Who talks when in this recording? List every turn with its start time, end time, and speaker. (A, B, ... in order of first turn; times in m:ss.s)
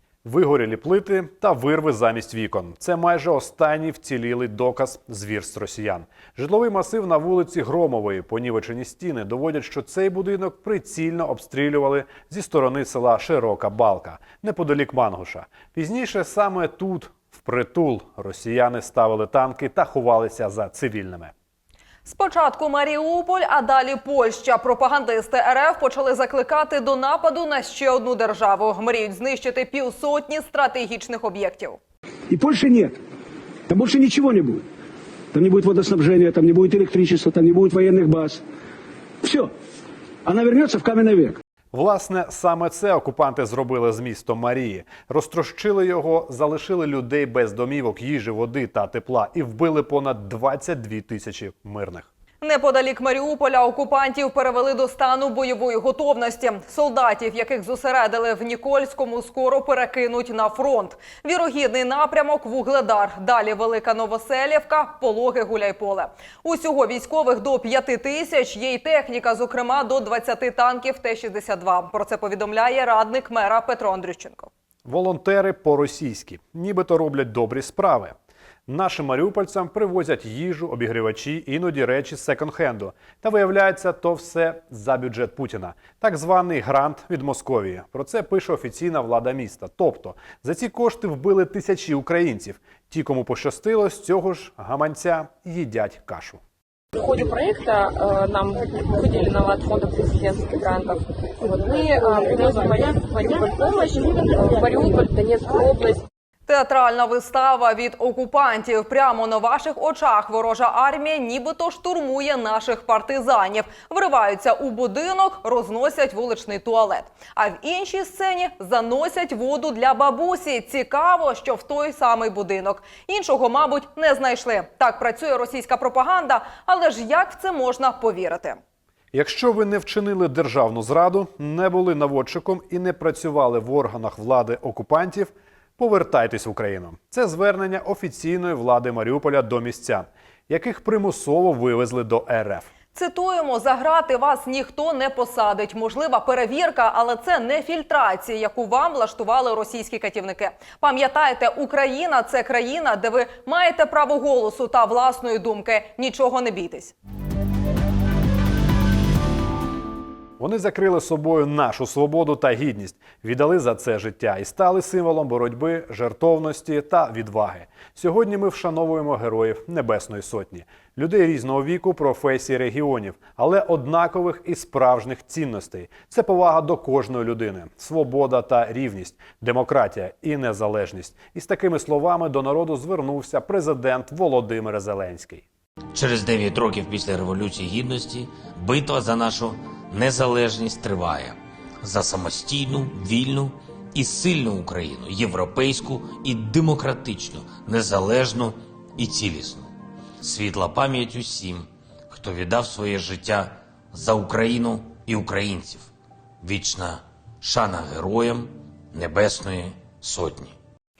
0:00.2-0:21.3 A
0:22.0-0:31.8 B
0:32.3-0:33.0 C
0:33.7-0:34.6 C
0:35.3-0:38.4 C
0:39.2-0:39.5 C
0:40.2-0:41.4 C
0:41.7-0:52.1 A
0:52.4-1:14.5 B
1:14.8-1:18.1 A
1:18.7-1:36.4 A
1:37.0-1:46.0 D
1:46.5-2:08.6 B
2:09.1-2:22.7 A
2:22.9-2:36.9 B
2:40.4-3:05.4 A
3:05.9-3:25.9 E
3:26.4-3:30.5 E